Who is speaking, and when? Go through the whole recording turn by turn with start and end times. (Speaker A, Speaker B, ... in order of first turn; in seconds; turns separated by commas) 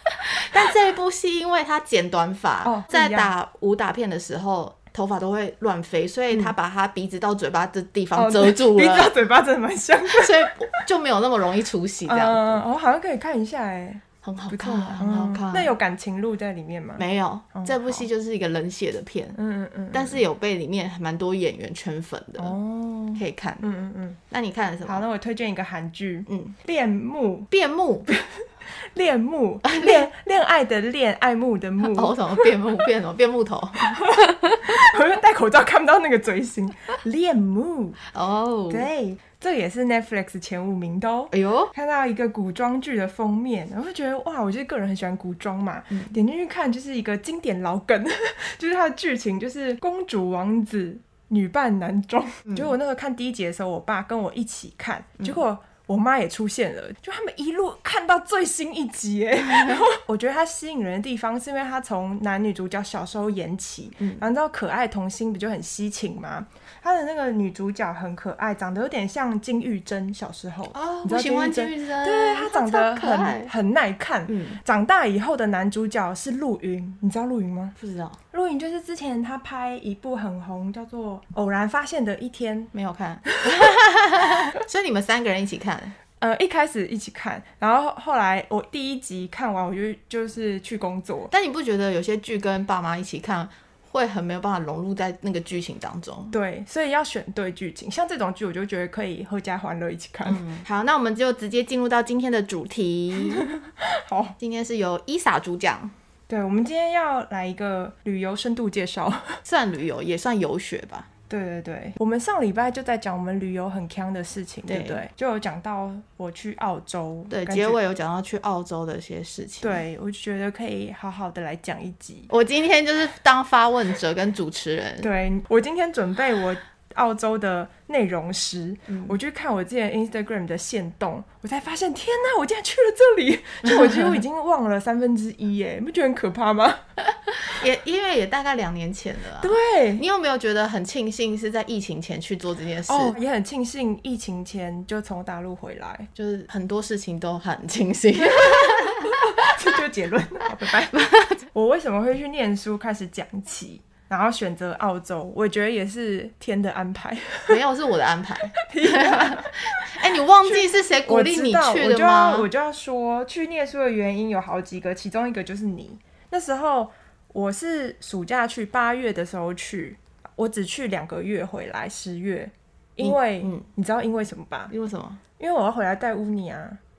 Speaker A: 0.2-9.1, Speaker B: 2.6-3.3, Speaker B: 8.2-10.8, Speaker A: 10.1-12.6, Speaker B: 12.1-18.1, Speaker A: 14.2-15.7, Speaker A: 17.0-19.4, Speaker B: 19.4-20.2, Speaker A: 19.9-22.6, Speaker B: 22.4-24.2, Speaker A: 23.1-23.7, Speaker A: 24.3-25.0, Speaker B: 24.9-27.5, Speaker A: 26.3-26.5, Speaker A: 27.5-28.1, Speaker B: 28.1-32.5, Speaker A: 29.6-30.0, Speaker A: 31.8-34.1, Speaker B: 33.8-38.0, Speaker A: 38.1-38.9, Speaker B: 38.7-77.7, Speaker A: 41.3-41.7, Speaker A: 52.5-52.7, Speaker A: 70.7-73.5, Speaker A: 74.3-74.6, Speaker A: 77.8-78.2, Speaker B: 78.3-82.7, Speaker A: 82.7-86.0, Speaker B: 83.3-83.8, Speaker B: 86.2-91.3, Speaker A: 91.3-96.3, Speaker B: 96.3-100.4, Speaker A: 100.2-103.5, Speaker B: 103.2-104.4, Speaker A: 104.4-105.9, Speaker B: 106.3-109.4, Speaker A: 109.4-111.1, Speaker B: 111.3-117.8, Speaker A: 114.7-115.0, Speaker A: 117.3-119.8, Speaker B: 119.6-122.3, Speaker A: 122.3-125.1, Speaker B: 125.0-136.8, Speaker A: 128.9-129.2, Speaker A: 133.7-134.1, Speaker A: 137.4-143.1, Speaker B: 139.4-140.0, Speaker B: 142.9-146.1, Speaker A: 146.2-149.6, Speaker B: 148.2-157.6, Speaker A: 150.9-151.4, Speaker A: 157.5-162.5, Speaker B: 158.6-174.7, Speaker A: 173.0-173.7, Speaker A: 174.7-175.2, Speaker B: 175.4-176.8